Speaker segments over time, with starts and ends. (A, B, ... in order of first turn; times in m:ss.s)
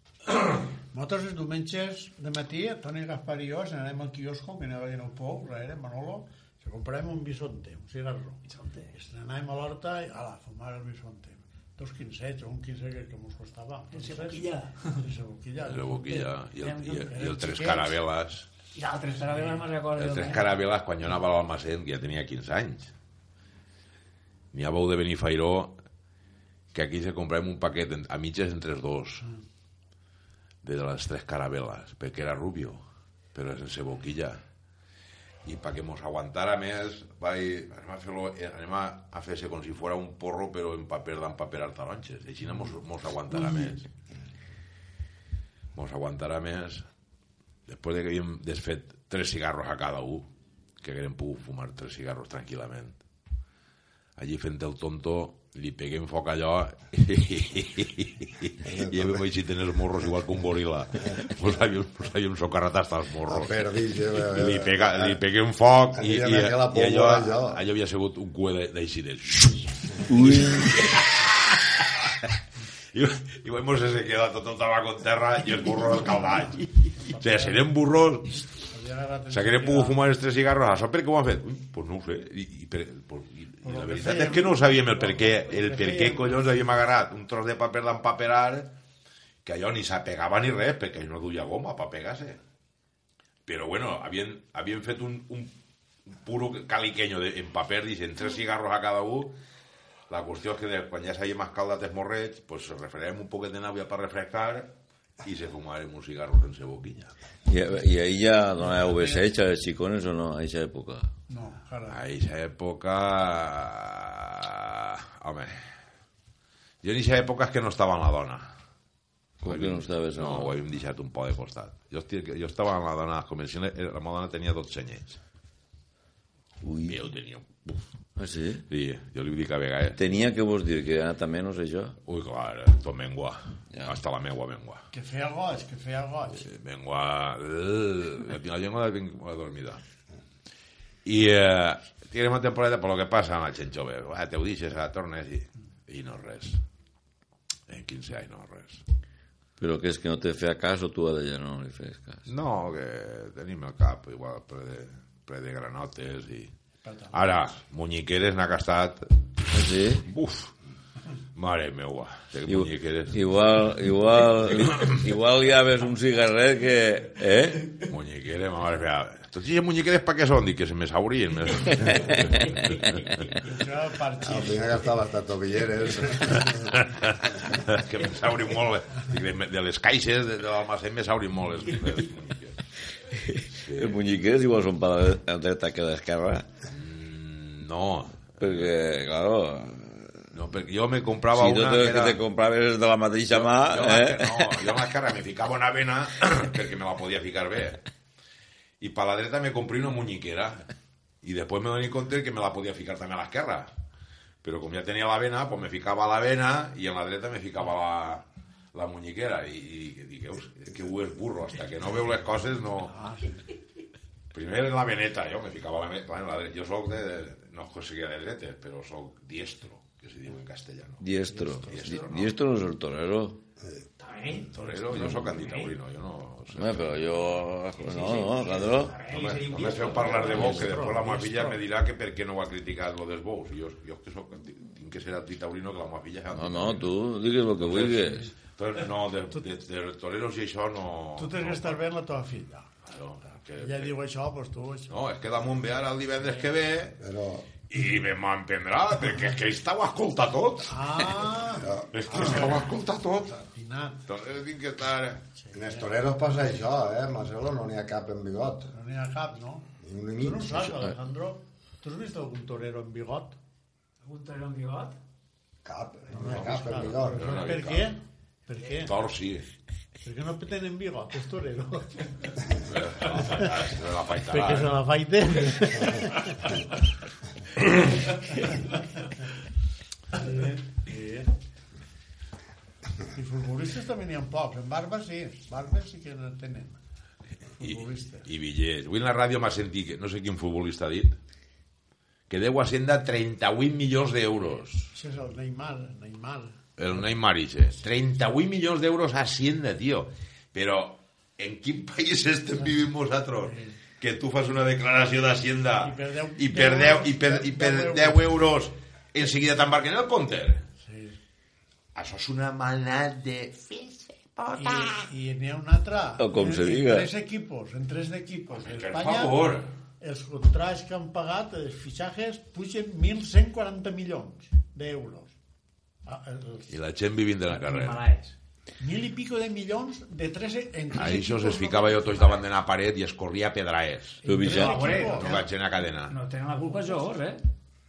0:00.9-0:08.4 A
0:08.5-0:08.9 B
0:08.9-0:16.4 A
0:13.9-0:15.0 B
0:15.6-0:18.5 C
0:16.6-0:17.1 B
0:16.9-0:17.9 A
0:18.7-0:20.5 B
0:19.2-0:19.6 A
0:20.0-0:22.9 C
0:24.5-0:25.8 C
0:26.7-0:29.3 C
0:30.6-0:32.8 C
0:33.3-0:34.4 C
0:35.4-0:43.9 C
0:45.7-0:46.8 C
0:47.7-0:50.3 C
0:50.8-0:53.0 C
0:54.2-1:03.5 C
0:58.6-0:59.2 D
1:03.3-1:05.2 D
1:04.2-1:12.3 C
1:05.9-1:07.6 D
1:10.0-1:11.0 E
1:12.9-1:18.4 C
1:17.1-1:17.6 A
1:18.7-1:20.0 A
1:19.3-1:28.7 C
1:23.6-1:26.5 A
1:29.4-1:32.4 C
1:33.4-1:35.5 C
1:36.1-1:39.3 C
1:40.1-1:44.7 C
1:45.2-1:47.1 C
1:47.5-1:51.1 E
1:48.7-1:49.2 A
1:51.3-1:52.0 A
1:51.9-1:55.6 C
1:56.8-1:58.5 C
1:59.4-2:00.6 E
1:59.4-2:05.2 C
2:06.6-2:07.0 E
2:06.9-2:07.8 C
2:08.2-2:08.6 E
2:08.7-2:10.0 C
2:10.0-2:12.0 E
2:12.0-2:14.8 C
2:14.9-2:16.4 A
2:16.4-2:19.8 C
2:21.0-2:26.6 C
2:27.7-2:28.8 C
2:29.6-2:32.2 E
2:32.3-2:36.5 C
2:36.8-2:37.2 A
2:37.1-2:39.0 C
2:39.5-2:40.0 E
2:40.0-2:40.5 C
2:41.3-2:43.2 C
2:42.5-2:47.7 E
2:47.8-2:53.3 C
2:51.7-2:53.3 E
2:53.4-2:54.8 A
2:54.2-2:56.7 D
2:56.4-3:02.6 C
3:03.1-3:06.5 E
3:03.6-3:04.0 C
3:06.7-3:08.7 C
3:08.4-3:10.2 E
3:10.3-3:12.2 C
3:11.3-3:14.7 E
3:13.3-3:17.8 C
3:18.8-3:20.7 C
3:21.2-3:23.7 C
3:24.4-3:32.9 C
3:32.8-3:33.4 A
3:34.3-3:41.1 C
3:41.0-3:43.4 E
3:41.3-3:41.8 A
3:41.7-3:42.3 C
3:44.0-3:45.7 B
3:44.5-3:47.2 C
3:44.9-3:45.2 E
3:46.5-3:48.9 E
3:47.8-3:50.6 B
3:49.1-3:56.9 C
3:50.0-3:51.6 A
3:50.3-3:50.6 E
3:56.3-3:58.3 E
3:57.6-4:01.8 C
4:01.2-4:02.7 A
4:02.8-4:03.9 C
4:03.6-4:04.9 A
4:04.9-4:07.0 C
4:07.0-4:07.5 D
4:07.7-4:11.3 C
4:10.7-4:12.7 A
4:11.6-4:11.9 D
4:11.9-4:13.3 C
4:13.3-4:14.0 A
4:14.1-4:15.2 C
4:15.4-4:15.9 A
4:15.5-4:18.7 D
4:18.7-4:19.6 A
4:19.8-4:20.9 D
4:20.2-4:23.4 A
4:24.0-4:25.0 B
4:25.6-4:27.4 D
4:26.1-4:28.9 A
4:26.2-4:27.9 C
4:28.8-4:29.4 C
4:30.0-4:31.9 A
4:32.7-4:34.7 C
4:33.2-4:33.7 A
4:34.3-4:36.6 A
4:38.4-4:38.7 A
4:40.1-4:41.3 A
4:43.1-4:46.8 A
4:47.6-4:48.3 A
4:47.6-4:51.2 C
4:52.3-4:54.9 C
4:54.9-4:56.6 A
4:56.8-5:10.6 C
5:03.4-5:03.8 A
5:05.8-5:08.2 A
5:10.8-5:11.2 A
5:11.9-5:15.1 C
5:14.5-5:25.3 A
5:16.2-5:17.1 E
5:18.5-5:19.7 C
5:26.0-5:26.7 A
5:26.7-5:28.0 C
5:27.5-5:28.4 B
5:28.8-5:32.4 A
5:30.9-5:34.2 C
5:34.2-5:35.4 A
5:34.2-5:34.8 E
5:34.4-5:35.4 B
5:34.9-5:36.1 C
5:36.1-5:37.4 B